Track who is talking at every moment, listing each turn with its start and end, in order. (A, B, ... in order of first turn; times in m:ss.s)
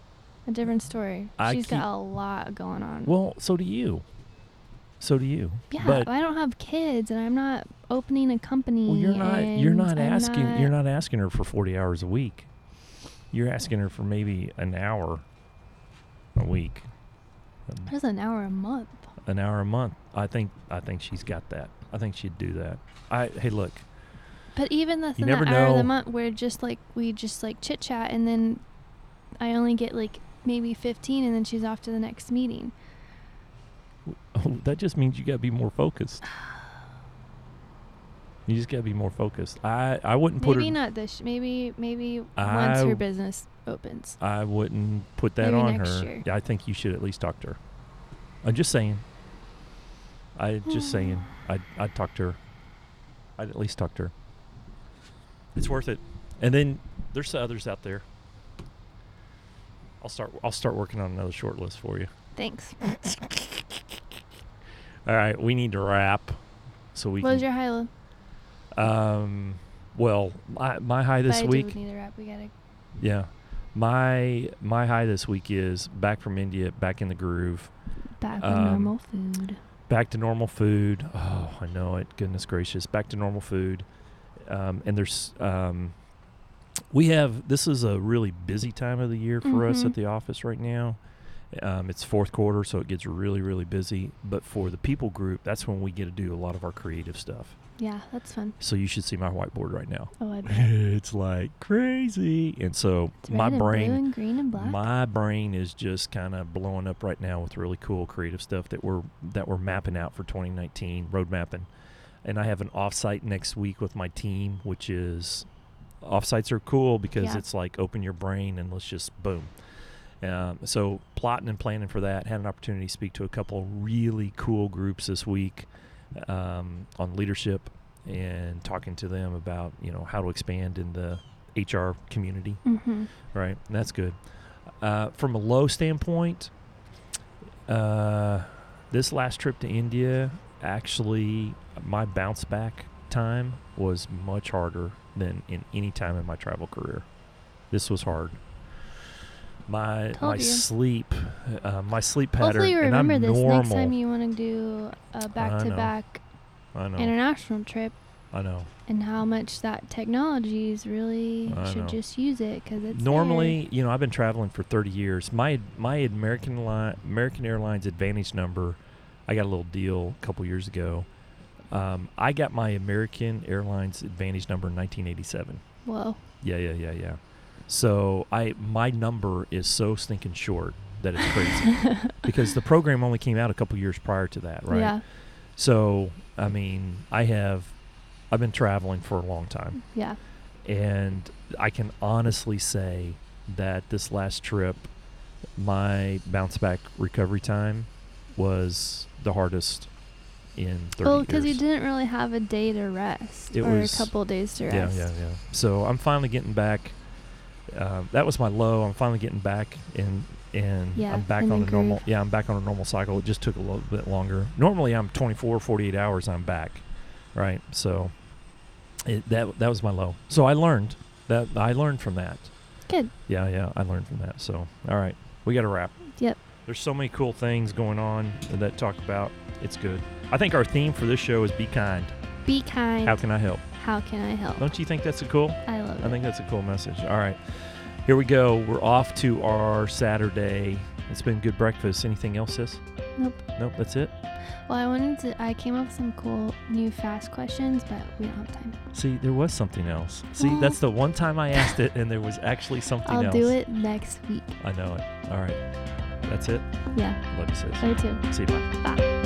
0:00.5-0:03.1 A
0:01.4-0:01.8 B
0:03.0-0:04.0 B
0:05.0-0:06.1 B
0:05.7-0:10.7 A
0:08.9-0:12.5 B
0:13.3-0:15.2 B
0:16.4-0:16.9 B
0:17.8-0:19.1 A
0:19.2-0:23.8 B
0:24.6-0:28.6 A
0:25.2-0:25.9 B
0:29.4-0:32.7 A
0:34.1-0:36.2 B
0:38.5-0:40.8 B
0:40.4-0:44.2 A
0:42.4-0:43.0 B
0:44.2-0:47.6 B
0:45.4-0:46.2 A
0:48.4-0:49.0 B
0:50.4-0:52.4 B
0:50.7-0:51.3 A
0:53.4-0:54.1 B
0:55.6-0:58.0 B
1:00.0-1:02.1 B
1:02.4-1:02.8 A
1:02.8-1:04.0 B
1:05.1-1:06.4 B
1:06.9-1:07.5 B
1:07.2-1:07.9 A
1:08.7-1:11.8 B
1:11.3-1:12.5 A
1:13.0-1:17.7 B
1:18.2-1:19.6 A
1:18.4-1:18.9 B
1:19.9-1:23.9 B
1:24.5-1:26.0 B
1:26.9-1:31.0 B
1:29.4-1:30.0 A
1:31.5-1:37.6 B
1:37.8-1:38.6 A
1:38.6-1:51.7 B
1:40.2-1:40.7 A
1:43.2-1:44.8 A
1:52.2-1:55.5 B
1:56.0-1:59.5 B
2:00.2-2:12.6 B
2:12.6-2:13.1 A
2:13.3-2:14.2 B
2:14.8-2:16.5 B
2:17.7-2:27.1 B
2:27.7-2:28.4 B
2:29.7-2:34.0 B
2:30.1-2:30.7 A
2:32.4-2:36.2 A
2:35.4-2:35.9 B
2:36.8-2:37.2 B
2:37.0-2:38.0 A
2:38.3-2:38.7 B
2:38.9-2:43.6 A
2:41.5-2:42.0 B
2:42.9-2:51.1 B
2:51.7-2:55.6 B
2:55.9-2:56.2 A
2:56.4-3:05.0 B
3:01.7-3:02.2 A
3:04.7-3:05.0 A
3:05.6-3:07.7 B
3:08.3-3:09.8 B
3:09.9-3:10.2 A
3:10.6-3:14.9 B
3:15.6-3:19.9 B
3:20.6-3:21.6 B
3:21.0-3:25.1 A
3:23.5-3:24.1 B
3:24.7-3:27.0 B
3:27.7-3:38.1 B
3:31.0-3:32.0 A
3:39.0-3:42.5 B
3:43.3-3:46.0 B
3:46.7-3:52.2 B
3:52.5-3:53.2 A
3:53.0-3:53.6 B
3:53.7-3:54.7 A
3:54.6-4:02.8 B
3:55.7-3:56.2 A
4:03.2-4:03.4 A
4:03.6-4:04.1 B
4:04.7-4:08.8 A
4:08.9-4:13.6 B
4:10.4-4:10.8 A
4:13.0-4:14.6 A
4:14.6-4:15.6 B
4:16.2-4:16.7 B
4:16.9-4:17.2 A
4:17.2-4:18.8 B
4:17.8-4:18.2 A